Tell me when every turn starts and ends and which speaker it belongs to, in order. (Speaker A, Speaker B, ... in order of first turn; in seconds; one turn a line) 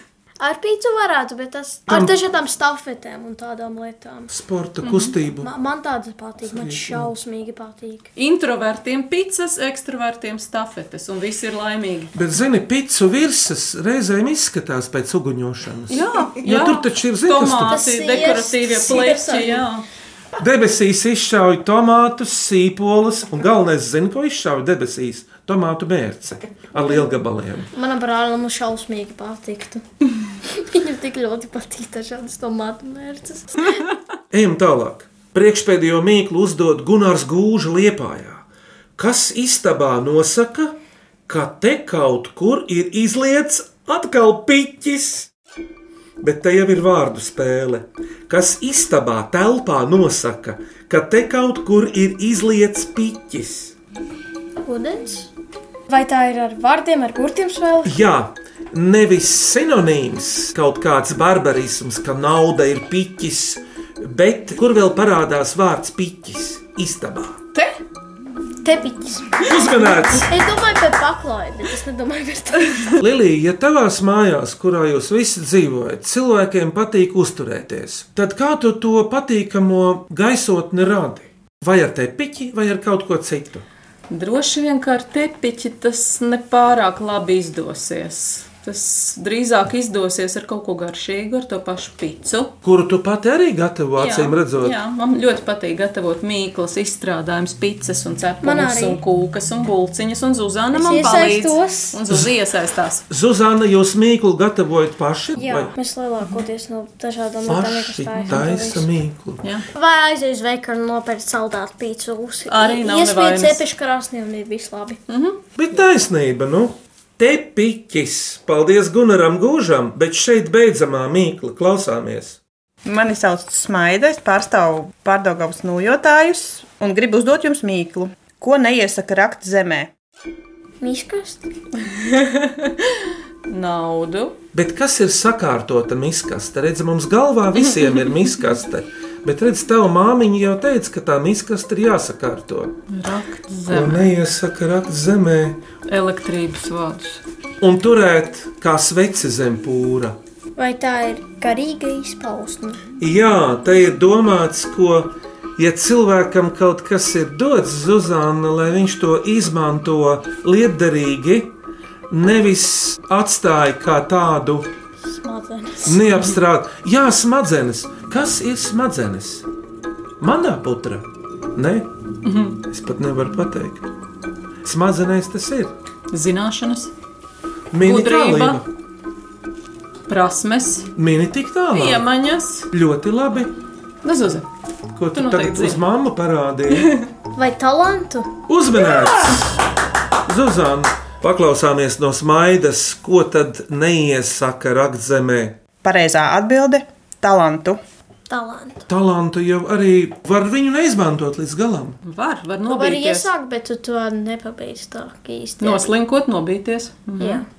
Speaker A: 0.4-4.3
Speaker B: 4.3-5.5
Speaker C: 4.8-5.1
Speaker A: 5.4-8.1
Speaker B: 6.4-7.1
Speaker C: 8.2-12.1
Speaker B: 12.1-17.8
Speaker C: 15.9-19.8
Speaker A: 17.7-19.6
Speaker B: 20.4-27.7
Speaker A: 27.7-29.8
Speaker A: 30.5-33.8
Speaker B: 34.3-38.4
Speaker B: 39.0-45.3
Speaker B: 46.2-53.7
Speaker A: 54.6-55.3
Speaker A: 55.9-58.0
Speaker B: 57.8-67.4
Speaker A: 68.6-69.5
Speaker B: 69.4-70.3
Speaker A: 70.3-72.9
Speaker B: 73.0-83.6
Speaker C: 84.1-92.5
Speaker B: 92.6-94.8
Speaker C: 94.0-103.0
Speaker A: 98.4-99.0
Speaker A: 100.7-102.0
Speaker B: 103.1-105.7
Speaker A: 105.4-108.9
Speaker B: 107.5-109.4
Speaker A: 109.7-115.0
Speaker C: 112.5-113.6
Speaker C: 115.1-115.4
Speaker B: 115.5-122.4
Speaker D: 122.8-129.9
Speaker A: 130.8-131.5
Speaker C: 131.9-134.4
Speaker B: 134.5-142.8
Speaker C: 142.9-144.1
Speaker B: 143.7-145.6
Speaker C: 145.8-147.2
Speaker B: 147.6-150.2
Speaker A: 150.6-152.8
Speaker B: 153.0-161.5
Speaker B: 162.1-164.7
Speaker A: 165.0-166.0
Speaker B: 165.8-169.4
Speaker B: 170.2-171.9
Speaker C: 172.2-172.6
Speaker B: 172.7-173.9
Speaker B: 174.6-175.7
Speaker C: 176.1-176.9
Speaker B: 177.7-178.7
Speaker C: 177.8-178.6
Speaker C: 180.1-180.9
Speaker B: 180.9-182.1
Speaker C: 181.7-182.7
Speaker B: 182.7-183.5
Speaker C: 184.0-184.5
Speaker B: 184.9-186.9
Speaker C: 185.1-185.8
Speaker C: 186.7-187.1
Speaker A: 187.3-188.3
Speaker B: 188.5-189.6
Speaker C: 188.9-189.3
Speaker B: 190.2-195.6
Speaker D: 195.8-197.8
Speaker A: 198.3-198.9
Speaker B: 198.9-202.0
Speaker C: 202.0-203.3
Speaker A: 202.7-205.9
Speaker C: 205.6-207.4
Speaker A: 207.2-207.4